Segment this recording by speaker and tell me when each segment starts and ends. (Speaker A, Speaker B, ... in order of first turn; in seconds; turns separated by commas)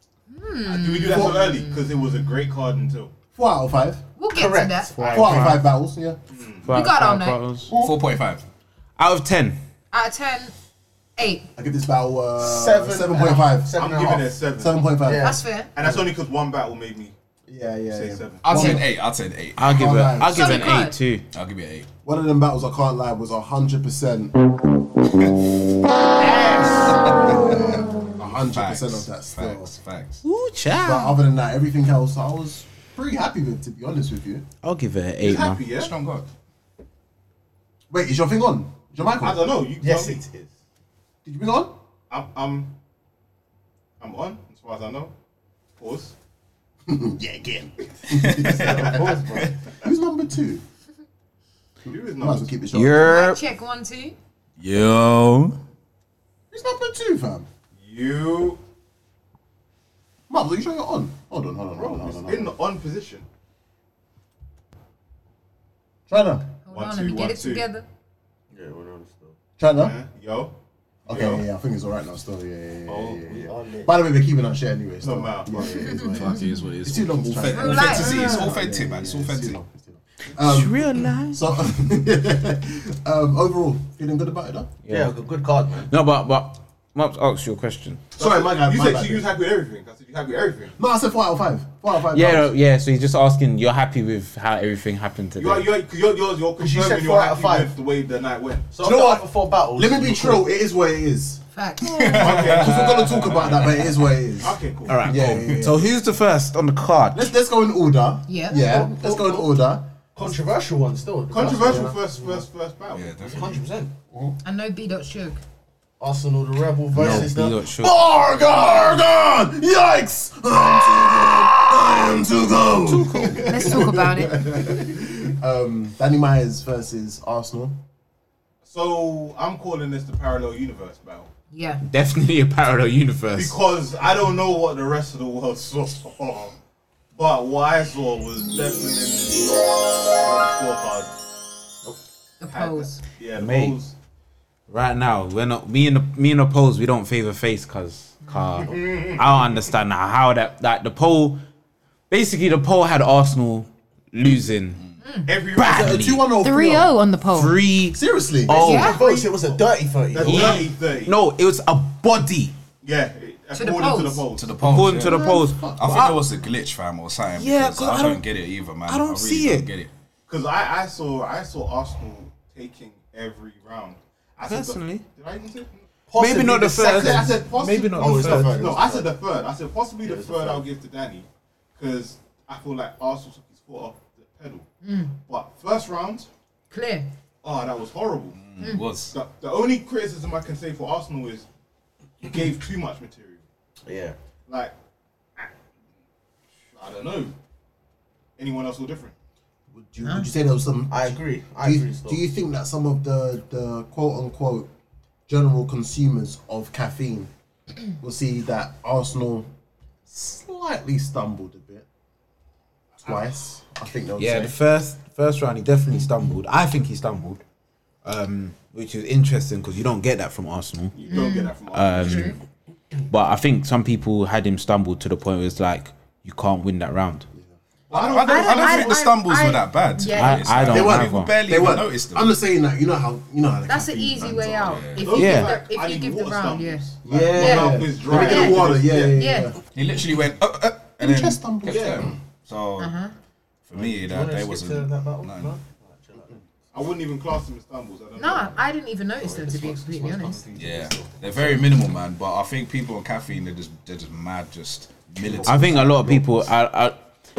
Speaker A: 0.3-2.0, Speaker B: 0.7-3.1, Speaker C: 1.1-1.5, Speaker C: 3.4-4.0, Speaker A: 4.2-5.1, Speaker D: 4.3-5.5, Speaker E: 5.0-5.7, Speaker C: 5.1-6.2, Speaker B: 6.3-6.7, Speaker E: 6.6-7.7, Speaker A: 6.7-7.4, Speaker F: 7.7-8.4, Speaker D: 7.7-8.0, Speaker E: 9.0-9.6, Speaker A: 9.9-10.5, Speaker A: 11.2-11.5, Speaker C: 11.6-16.1, Speaker D: 12.4-14.3, Speaker B: 13.8-14.8, Speaker D: 15.0-15.4, Speaker A: 15.2-15.7, Speaker B: 15.8-17.1, Speaker C: 17.5-18.9, Speaker B: 17.9-18.5, Speaker F: 18.4-20.0, Speaker E: 19.6-21.3, Speaker C: 19.6-20.7, Speaker A: 20.3-21.0, Speaker F: 21.3-21.9, Speaker C: 22.0-25.5, Speaker C: 26.2-29.7, Speaker F: 28.2-30.2, Speaker E: 30.2-31.2, Speaker C: 30.8-34.5, Speaker E: 34.6-35.7, Speaker B: 35.2-35.9, Speaker F: 35.5-36.3, Speaker C: 37.9-39.6, Speaker B: 39.1-40.2, Speaker D: 39.8-40.5, Speaker C: 41.2-41.7, Speaker B: 42.1-42.7, Speaker B: 44.0-45.1, Speaker B: 45.8-46.1, Speaker C: 46.9-49.1, Speaker F: 48.1-48.5, Speaker D: 48.5-49.6, Speaker B: 48.6-49.2, Speaker C: 49.8-50.6, Speaker B: 51.9-52.5, Speaker C: 52.2-53.1, Speaker E: 52.7-53.4, Speaker A: 53.0-54.2, Speaker F: 54.6-55.5, Speaker C: 56.5-57.5, Speaker B: 57.8-58.6, Speaker C: 60.3-62.5, Speaker B: 61.8-63.3, Speaker C: 66.1-66.5, Speaker A: 66.7-67.8, Speaker B: 66.7-67.7, Speaker D: 68.5-69.4, Speaker C: 69.6-70.0, Speaker B: 69.8-70.5, Speaker C: 71.1-84.7, Speaker B: 71.1-71.4, Speaker D: 72.9-73.9, Speaker B: 75.0-75.7, Speaker A: 75.8-76.5, Speaker F: 75.9-79.6, Speaker A: 77.5-78.3, Speaker D: 78.1-78.5, Speaker E: 80.4-81.5, Speaker E: 84.9-85.1, Speaker D: 84.9-85.9, Speaker E: 85.9-88.1, Speaker C: 88.2-89.3, Speaker B: 88.2-90.8, Speaker C: 90.8-92.5, Speaker E: 92.1-95.7, Speaker B: 95.4-98.7, Speaker D: 96.6-97.7, Speaker D: 98.7-100.5, Speaker C: 98.8-105.9, Speaker A: 101.5-102.4, Speaker B: 102.2-103.7, Speaker F: 102.5-103.4, Speaker B: 104.4-105.0, Speaker E: 104.9-107.3, Speaker C: 107.1-109.8, Speaker A: 108.3-108.6, Speaker D: 108.5-109.5, Speaker D: 110.2-112.4, Speaker B: 111.3-113.1, Speaker C: 111.6-112.0, Speaker F: 112.9-113.7, Speaker D: 113.2-113.9, Speaker A: 114.4-115.4, Speaker D: 116.0-117.6, Speaker E: 116.9-118.0, Speaker C: 117.8-127.8, Speaker E: 122.8-123.6, Speaker A: 123.3-124.4, Speaker B: 128.7-131.3, Speaker A: 131.5-131.8, Speaker E: 131.9-133.6, Speaker B: 133.4-136.6, Speaker B: 137.2-141.1, Speaker A: 142.4-143.0, Speaker B: 142.5-143.9, Speaker E: 143.3-143.8, Speaker E: 144.7-151.4, Speaker D: 148.6-149.5, Speaker E: 152.1-154.8, Speaker A: 155.0-155.3, Speaker B: 155.3-156.0, Speaker E: 155.6-156.2, Speaker C: 155.6-157.0, Speaker A: 156.4-157.6, Speaker E: 157.3-159.0, Speaker C: 157.9-158.6, Speaker D: 158.5-160.7, Speaker A: 158.5-159.0, Speaker B: 158.7-159.6, Speaker B: 160.1-161.2, Speaker E: 160.2-162.5, Speaker B: 162.8-164.6, Speaker A: 163.5-164.2, Speaker F: 164.3-169.9, Speaker E: 164.6-166.2, Speaker C: 164.8-166.1, Speaker E: 167.4-168.2, Speaker E: 168.9-169.7, Speaker B: 170.3-175.8, Speaker E: 174.4-175.1, Speaker D: 176.1-179.1, Speaker E: 176.2-178.8, Speaker B: 176.8-184.7, Speaker D: 180.0-180.7, Speaker A: 184.8-185.2, Speaker B: 185.3-186.3, Speaker A: 186.7-187.1, Speaker B: 187.4-188.4, Speaker F: 188.3-189.2, Speaker B: 189.1-191.5, Speaker B: 192.2-193.4, Speaker D: 193.9-194.2, Speaker B: 194.5-194.7, Speaker B: 196.8-197.3, Speaker B: 198.4-199.1, Speaker C: 199.7-204.7, Speaker A: 200.0-200.3, Speaker D: 200.9-202.2, Speaker C: 205.3-207.3, Speaker C: 208.0-209.5, Speaker C: 210.1-211.9, Speaker C: 213.0-214.6, Speaker E: 214.2-217.4, Speaker E: 218.1-222.4, Speaker B: 221.0-222.4, Speaker A: 221.1-221.5, Speaker A: 222.0-222.3, Speaker E: 223.1-227.3, Speaker B: 227.9-229.0, Speaker F: 227.9-232.4, Speaker A: 228.2-230.6, Speaker E: 230.1-231.4, Speaker C: 230.7-234.7, Speaker A: 233.7-236.8, Speaker F: 234.6-235.1, Speaker B: 235.0-239.2, Speaker E: 235.1-235.6, Speaker D: 237.1-238.6, Speaker C: 237.1-239.6, Speaker A: 237.4-239.5, Speaker F: 239.8-243.0, Speaker C: 241.0-242.2, Speaker B: 241.7-242.1, Speaker A: 242.8-243.1, Speaker F: 243.7-245.6, Speaker D: 243.7-246.4, Speaker B: 246.7-248.6, Speaker A: 248.2-250.4, Speaker D: 249.2-251.7, Speaker F: 250.6-256.1, Speaker C: 255.2-256.2, Speaker E: 255.4-257.0